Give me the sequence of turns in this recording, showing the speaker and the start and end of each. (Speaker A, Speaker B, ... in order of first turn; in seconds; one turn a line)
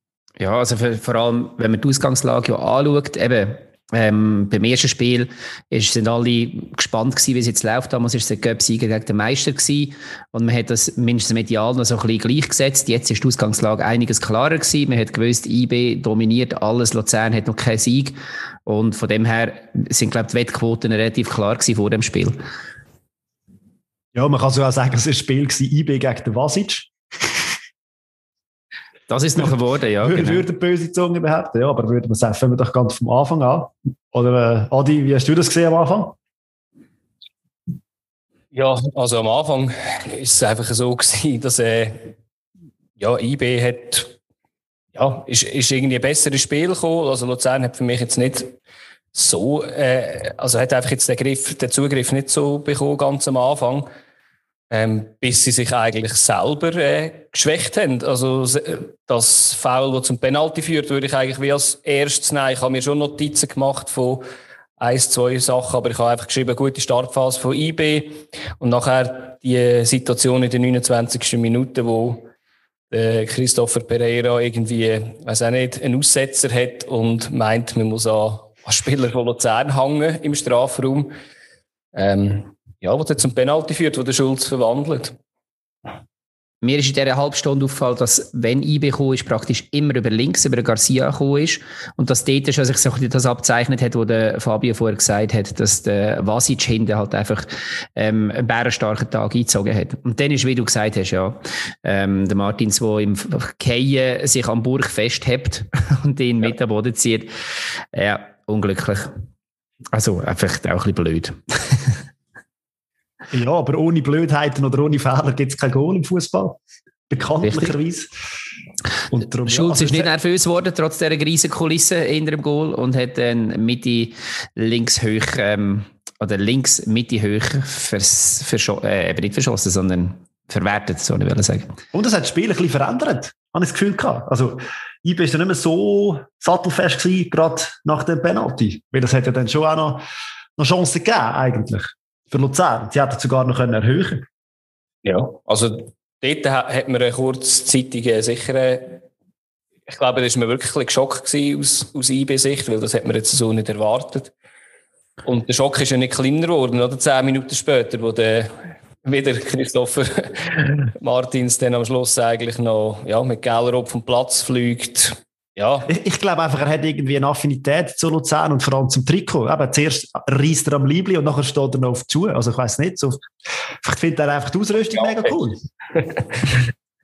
Speaker A: 0.4-22.4
Speaker B: 24.1-26.9
Speaker A: 29.1-30.5
Speaker B: 30.0-36.1
Speaker C: 38.5-42.1
Speaker C: 43.0-44.1
Speaker C: 44.9-48.6
Speaker C: 49.1-53.9
Speaker C: 54.7-64.2
Speaker C: 64.8-72.3
Speaker C: 72.9-81.1
Speaker C: 81.9-85.2
Speaker A: 86.6-107.3
Speaker A: 107.9-109.2
Speaker A: 109.9-112.0
Speaker B: 113.3-118.1
Speaker A: 117.4-117.7
Speaker B: 119.1-120.1
Speaker A: 119.4-131.7
Speaker B: 131.9-140.0
Speaker B: 140.6-144.3
Speaker C: 145.0-149.0
Speaker C: 149.9-154.3
Speaker C: 155.2-165.9
Speaker B: 165.9-173.2
Speaker B: 173.8-175.6
Speaker C: 175.0-175.3
Speaker C: 175.9-176.7